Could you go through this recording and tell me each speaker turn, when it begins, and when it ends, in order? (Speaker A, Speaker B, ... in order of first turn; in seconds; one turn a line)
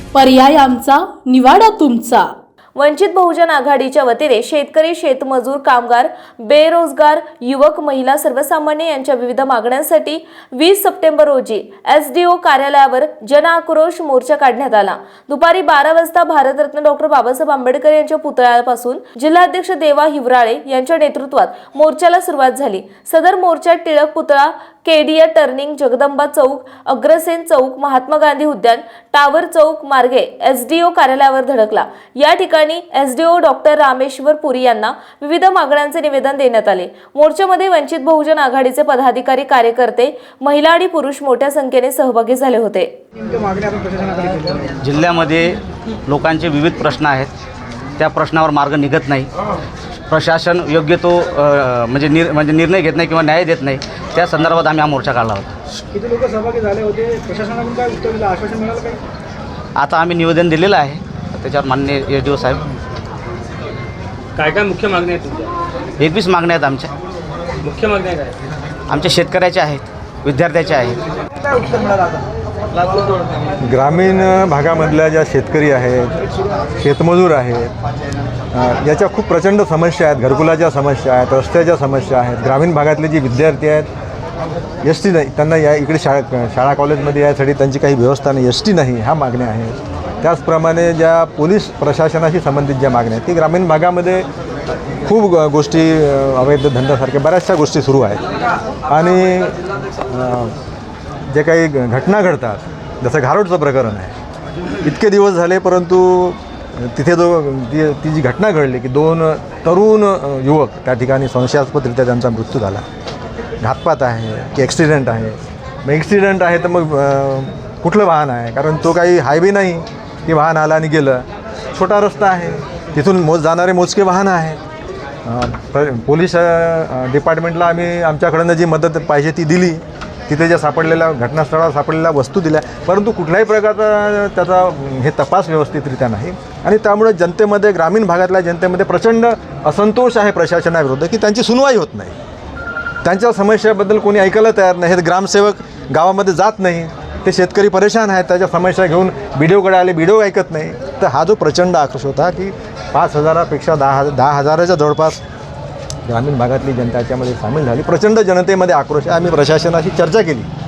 Speaker A: 0.1-2.3
Speaker B: 2.8-42.9
Speaker C: 43.1-44.7
Speaker D: 44.8-47.3
Speaker D: 48.0-49.3
Speaker D: 50.1-55.5
Speaker C: 55.9-59.0
Speaker D: 59.8-62.7
Speaker E: 64.3-65.5
Speaker D: 66.0-66.9
Speaker E: 67.6-68.3
Speaker D: 68.9-71.0
Speaker F: 73.6-76.1
Speaker F: 76.8-77.7
Speaker F: 78.5-83.9
Speaker F: 84.8-94.3
Speaker F: 95.0-98.2
Speaker F: 98.9-99.5
Speaker F: 100.0-100.5
Speaker F: 101.3-104.2
Speaker F: 104.8-112.8
Speaker F: 113.6-124.6
Speaker F: 125.2-142.2
Speaker F: 143.0-155.2
Speaker F: 156.0-160.5